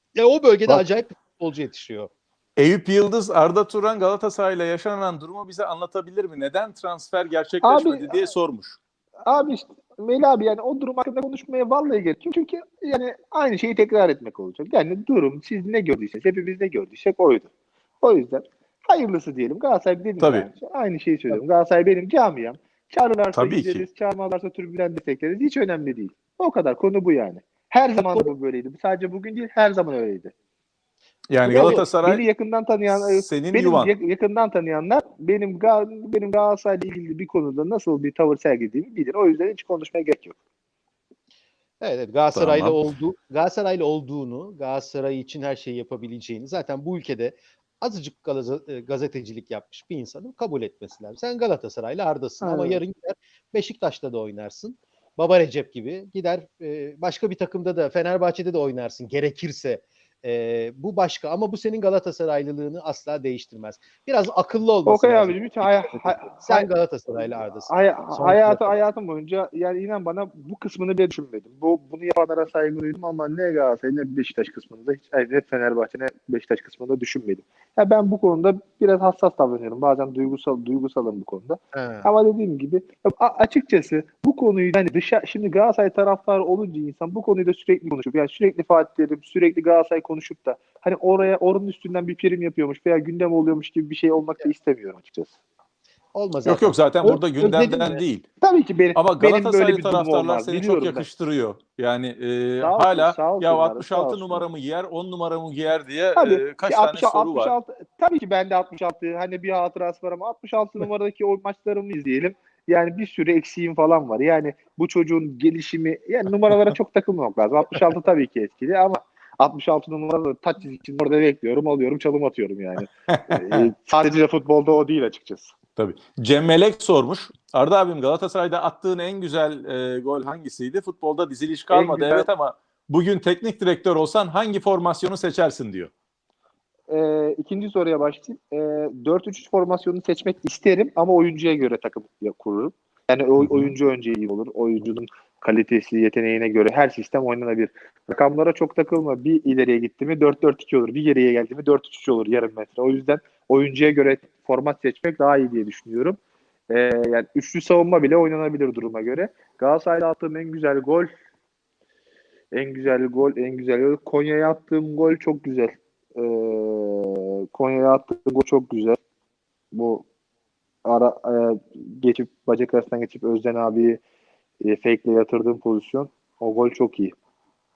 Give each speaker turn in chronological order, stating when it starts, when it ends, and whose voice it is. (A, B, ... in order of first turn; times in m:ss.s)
0:00.1-0:02.1 A
0:02.6-0:08.8 B
0:07.6-0:08.1 C
0:09.2-0:30.3 C
0:20.2-0:20.4 B
0:23.3-0:23.8 B
0:28.0-0:28.3 A
0:31.3-0:32.2 B
0:31.4-0:40.4 C
0:31.5-0:31.8 A
0:32.9-0:33.9 B
0:41.8-1:08.8 A
0:42.3-0:42.8 B
0:52.4-0:52.8 C
1:04.8-1:06.7 C
1:07.3-1:35.3 C
1:21.7-1:22.1 A
1:36.1-1:38.0 A
1:36.4-1:38.2 B
1:38.4-1:41.0 C
1:38.9-1:47.5 B
1:42.6-1:44.4 C
1:46.2-2:05.5 C
2:03.1-2:03.6 B
2:05.8-2:15.9 B
2:11.7-2:12.3 C
2:16.9-2:36.2 C
2:23.4-2:23.7 B
2:36.7-2:41.1 C
2:42.5-2:49.0 C
2:49.7-2:50.0 C
2:50.8-2:54.0 C
2:54.6-2:57.1 C